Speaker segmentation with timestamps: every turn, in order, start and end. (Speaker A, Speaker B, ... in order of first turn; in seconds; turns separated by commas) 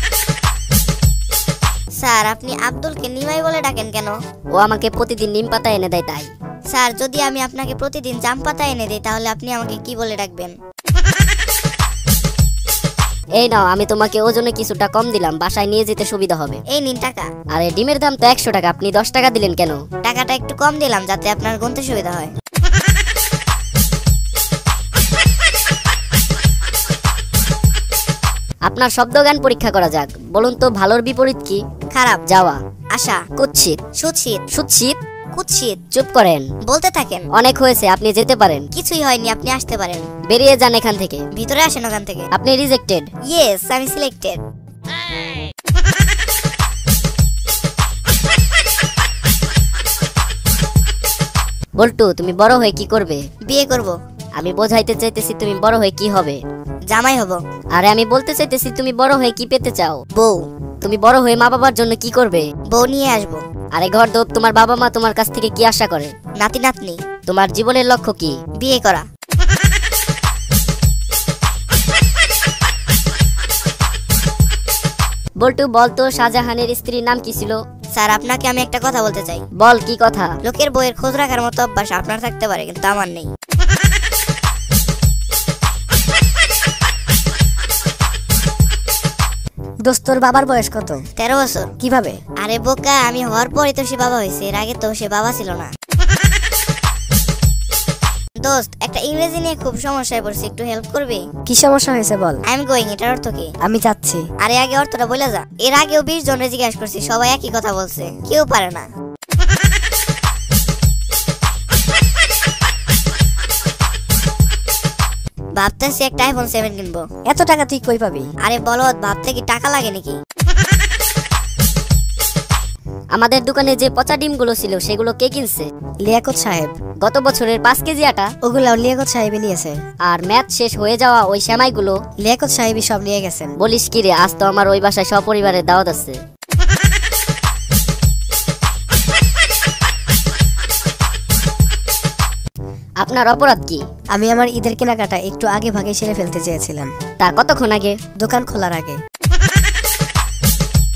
Speaker A: 2.0-4.2, Speaker B: 4.6-6.3, Speaker A: 6.7-10.6, Speaker B: 13.4-16.6, Speaker A: 16.7-17.4, Speaker B: 17.5-19.8, Speaker A: 20.0-22.3, Speaker B: 28.7-31.6, Speaker A: 31.9-32.2, Speaker B: 32.3-32.6, Speaker A: 32.9-33.3, Speaker B: 33.4-33.9, Speaker A: 33.9-34.4, Speaker B: 34.5-35.0, Speaker A: 35.4-35.9, Speaker B: 35.9-36.5, Speaker A: 36.7-37.3, Speaker B: 37.3-38.7, Speaker A: 38.7-40.1, Speaker B: 40.3-41.2, Speaker A: 41.3-42.3, Speaker B: 42.3-43.1, Speaker A: 43.2-44.4, Speaker B: 51.8-53.2, Speaker A: 53.5-53.9, Speaker B: 54.4-56.4, Speaker A: 56.9-57.4, Speaker B: 57.8-60.0, Speaker A: 60.1-60.4, Speaker B: 60.8-62.5, Speaker A: 62.7-63.4, Speaker B: 63.7-66.1, Speaker A: 66.4-67.1, Speaker B: 67.3-68.4, Speaker A: 68.6-69.0, Speaker B: 75.4-77.6, Speaker A: 77.9-79.4, Speaker B: 79.6-80.4, Speaker A: 80.4-83.3, Speaker C: 89.8-91.0, Speaker A: 91.2-91.7, Speaker C: 91.8-92.2, Speaker A: 92.4-95.7, Speaker A: 98.4-101.2, Speaker C: 101.5-102.4, Speaker A: 102.5-103.5, Speaker C: 103.6-104.2, Speaker A: 104.4-108.9, Speaker A: 115.6-117.0, Speaker C: 117.3-118.3, Speaker A: 118.4-120.2, Speaker B: 123.1-125.7, Speaker C: 126.0-126.7, Speaker B: 127.0-128.3, Speaker C: 128.4-129.8, Speaker B: 130.1-132.0, Speaker C: 132.2-133.6, Speaker B: 133.6-136.2, Speaker B: 143.0-143.8, Speaker C: 144.1-146.9, Speaker B: 147.2-148.0, Speaker C: 148.2-149.0